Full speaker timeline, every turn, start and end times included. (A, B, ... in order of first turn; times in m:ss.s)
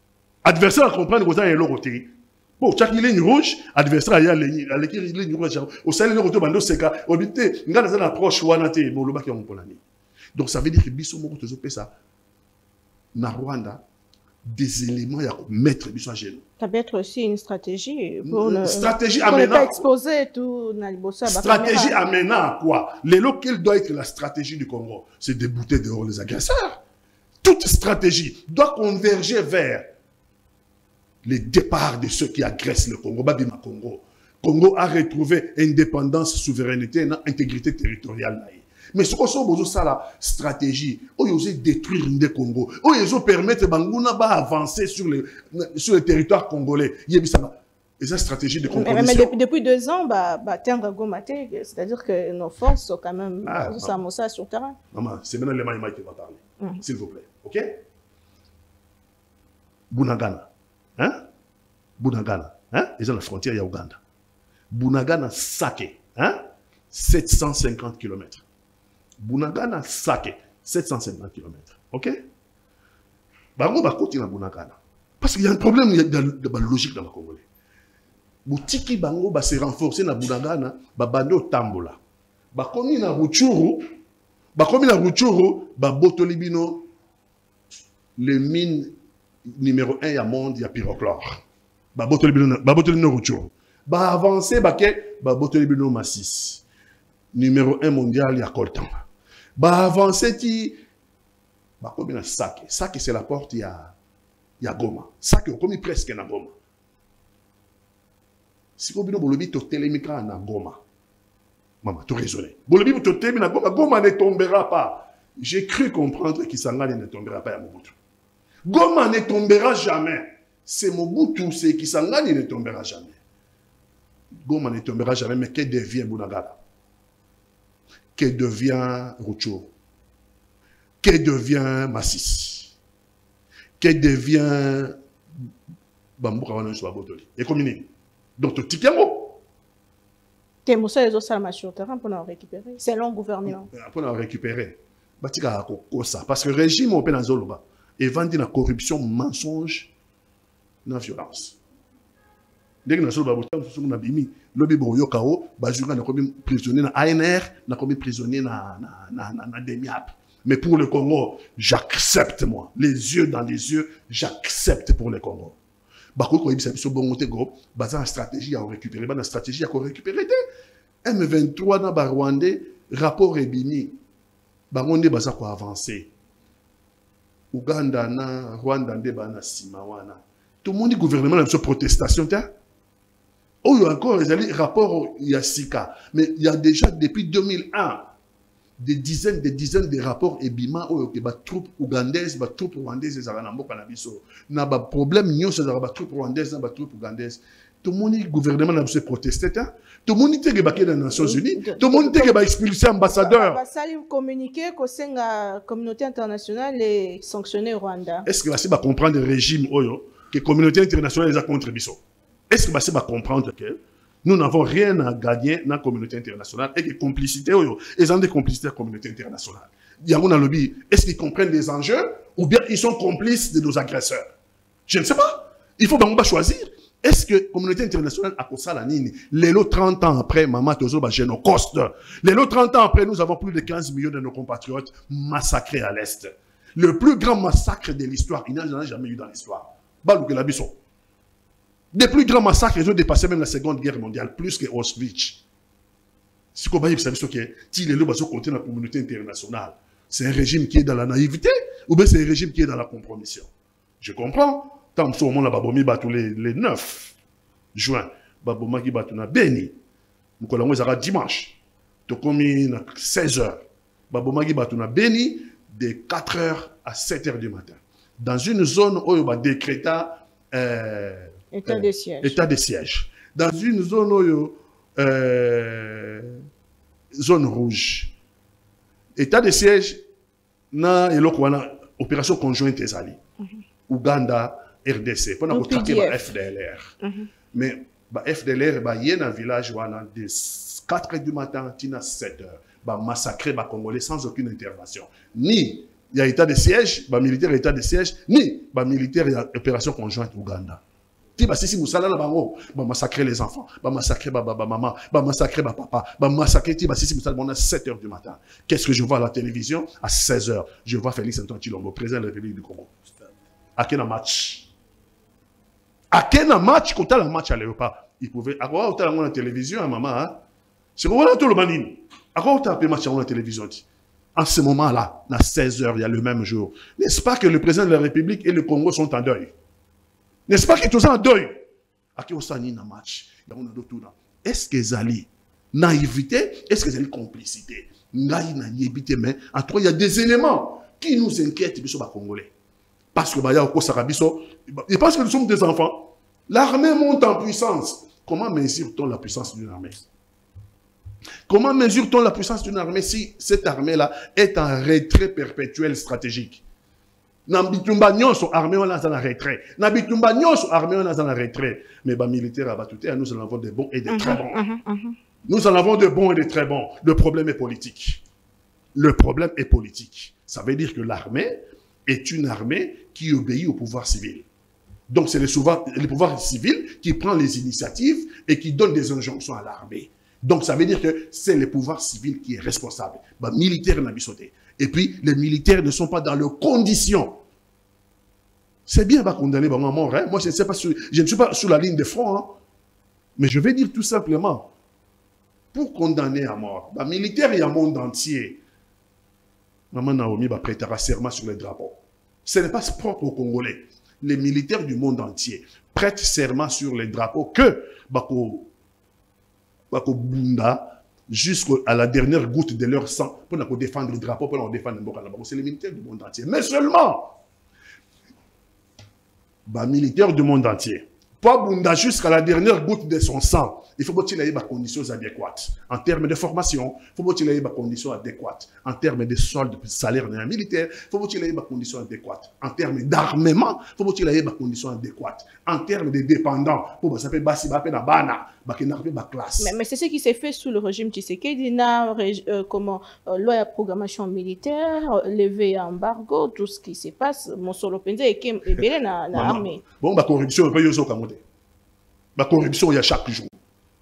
0:00.4-0:09.8 A
0:10.3-0:11.9 A
0:13.1-0:13.8 A
0:14.4-0:16.4 A
0:16.6-0:22.0 B
0:18.2-0:19.8 A
0:21.2-0:26.8 A
0:27.4-0:29.9 A
0:31.2-0:49.3 A
0:48.7-0:54.8 B
0:53.4-0:54.0 A
0:54.9-0:57.8 A
0:59.9-1:01.2 A
1:02.0-1:04.0 A
1:04.7-1:08.4 A
1:09.2-1:12.1 A
1:13.6-1:17.4 A
1:18.4-1:22.0 A
1:22.5-1:23.8 A
1:24.6-1:26.9 A
1:28.2-1:28.9 A
1:29.5-1:31.4 A
1:31.9-1:36.6 A
1:37.3-1:39.0 A
1:39.6-1:40.8 A
1:41.8-1:43.9 A
1:44.6-1:46.5 A
1:48.8-1:50.8 A
1:51.8-1:58.0 A
1:58.6-2:03.2 A
2:04.4-2:06.6 A
2:08.1-2:09.7 A
2:11.0-2:12.7 A
2:13.8-2:15.5 A
2:16.2-2:19.4 A
2:20.6-2:23.7 B
2:23.4-2:29.9 A
2:30.8-2:31.6 A
2:32.8-2:45.6 A
2:46.2-2:50.4 A
2:51.0-2:54.0 A
2:54.7-2:56.1 A
2:57.5-3:02.5 A
3:03.6-3:08.1 A
3:08.8-3:23.6 A
3:21.1-3:22.4 B
3:23.0-3:28.3 B
3:28.2-3:44.3 A
3:44.9-4:00.8 A
4:01.9-4:05.4 A
4:06.6-4:13.5 A
4:14.0-4:17.1 A
4:17.7-4:19.7 A
4:20.4-4:36.4 A
4:31.5-4:32.4 B
4:37.1-4:38.1 A
4:39.2-4:40.0 A
4:40.7-4:43.2 A
4:43.9-4:46.9 A
4:45.5-4:46.2 B
4:47.0-4:47.3 B
4:47.5-5:00.8 A
5:01.4-5:12.9 A
5:13.8-5:14.7 A
5:16.1-5:20.4 A
5:21.0-5:29.5 A
5:30.5-5:31.6 A
5:32.2-5:42.5 A
5:43.1-5:50.0 A
5:51.5-5:56.6 A
5:57.5-6:04.6 A
6:04.1-6:05.2 B
6:05.4-6:08.2 A
6:08.9-6:14.4 A
6:15.1-6:27.4 A
6:28.9-6:32.6 A
6:33.4-6:34.7 A
6:35.7-6:38.6 A
6:39.9-6:48.7 A
6:49.9-6:57.4 A
6:59.6-7:19.8 A
7:19.6-7:29.8 B
7:29.3-7:31.4 A
7:32.4-7:33.6 A